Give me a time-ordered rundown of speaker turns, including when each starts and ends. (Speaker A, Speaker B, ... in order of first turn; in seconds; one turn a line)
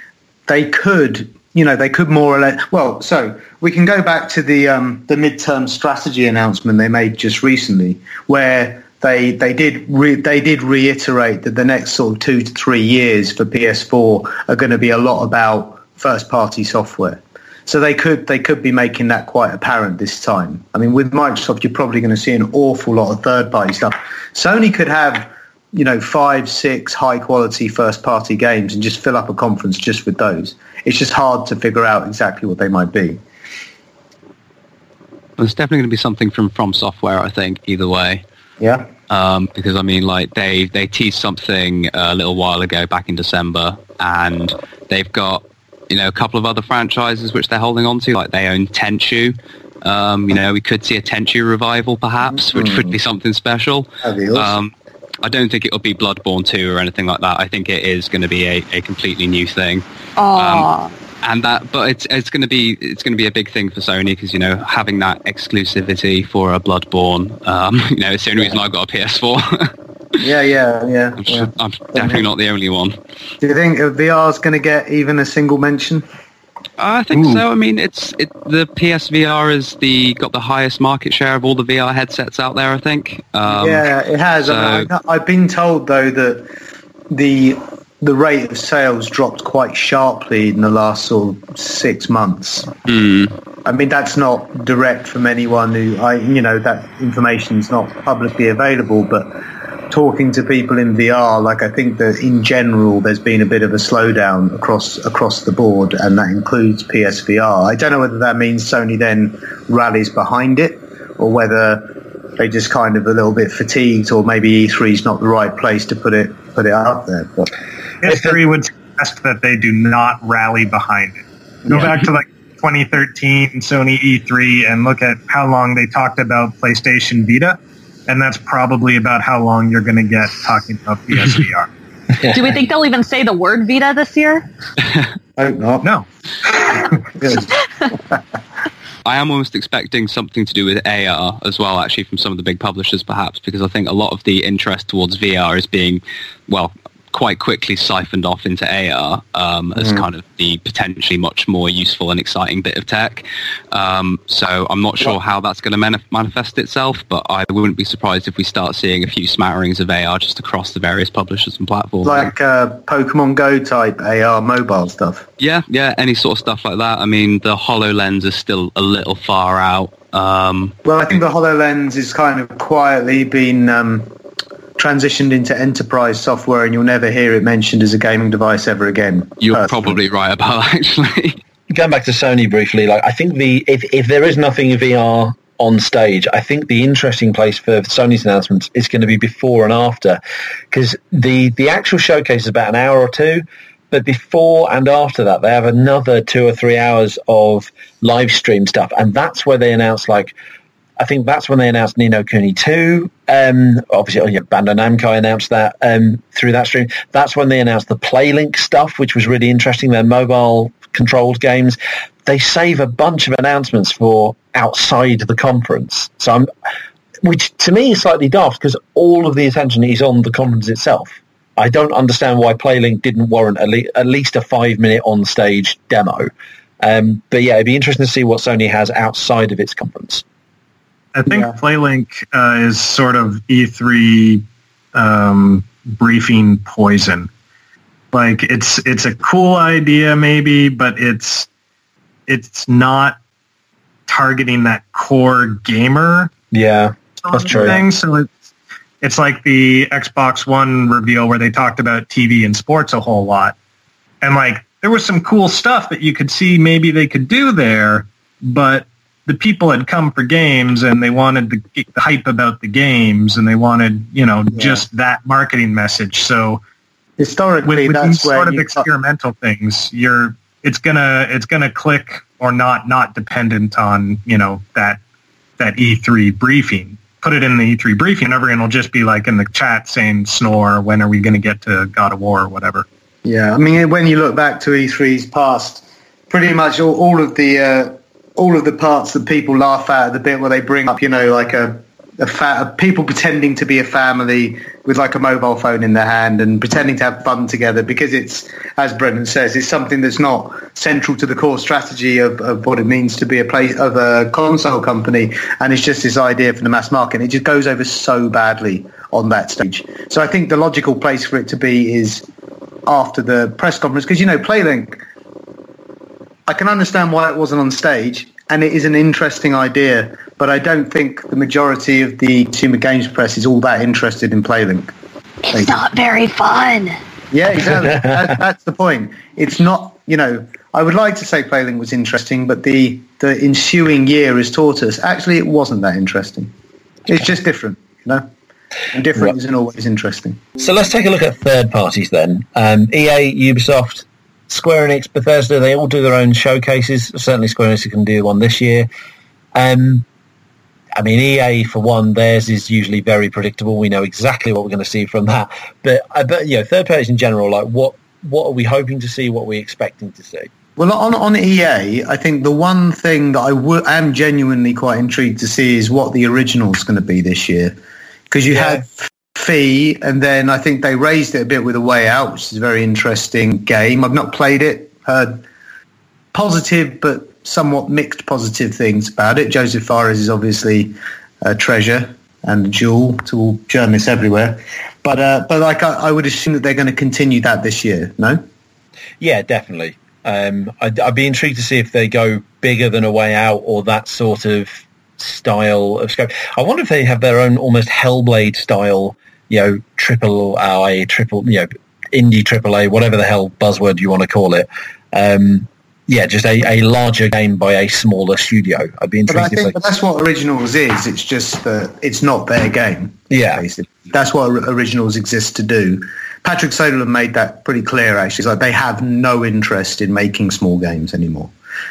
Speaker A: 0.5-33.2
Speaker B: 35.4-38.2
Speaker A: 38.6-38.9
Speaker B: 39.1-59.8
Speaker A: 52.2-53.0
Speaker A: 54.0-54.6
Speaker C: 60.2-60.9
Speaker B: 60.4-60.7
Speaker B: 61.2-69.7
Speaker A: 68.3-68.6
Speaker A: 70.2-72.3
Speaker B: 71.2-73.0
Speaker A: 73.4-76.0
Speaker B: 76.8-83.9
Speaker A: 77.1-77.4
Speaker A: 83.5-86.5
Speaker B: 84.4-84.9
Speaker A: 87.1-92.7
Speaker B: 92.8-93.3
Speaker A: 93.7-99.4
Speaker A: 99.9-117.5
Speaker D: 118.0-131.7
Speaker E: 118.1-118.4
Speaker A: 121.7-122.0
Speaker E: 132.2-132.4
Speaker C: 132.3-134.5
Speaker A: 135.4-135.9
Speaker A: 136.7-138.2
Speaker B: 139.1-162.3
Speaker A: 149.8-150.1
Speaker A: 162.0-165.3
Speaker B: 165.4-170.8
Speaker A: 170.8-174.1
Speaker A: 174.8-180.0
Speaker B: 179.4-181.4
Speaker E: 181.7-190.2
Speaker E: 190.7-200.3
Speaker E: 201.0-216.5
Speaker E: 217.2-226.3
Speaker E: 226.8-230.2
Speaker D: 231.2-237.3
Speaker A: 231.3-231.6
Speaker D: 238.1-241.5
Speaker D: 242.3-243.2
Speaker D: 244.1-246.3
Speaker E: 246.5-247.8
Speaker D: 247.2-248.4
Speaker D: 249.0-253.6
Speaker D: 254.2-266.6
Speaker A: 264.5-264.8
Speaker A: 267.2-268.9
Speaker D: 267.6-275.0
Speaker D: 275.6-282.9
Speaker A: 283.2-312.2
Speaker A: 312.9-315.0
Speaker A: 316.5-324.9
Speaker C: 325.5-327.0
Speaker A: 327.3-336.5
Speaker E: 327.6-328.3
Speaker A: 337.1-338.3
Speaker A: 338.9-340.5
Speaker E: 340.6-348.9
Speaker E: 349.6-350.1
Speaker E: 351.0-360.5
Speaker A: 360.8-367.8
Speaker A: 368.3-375.4
Speaker E: 368.5-368.8
Speaker A: 376.3-388.4
Speaker E: 389.2-409.8
Speaker A: 409.3-421.5
Speaker E: 413.3-413.6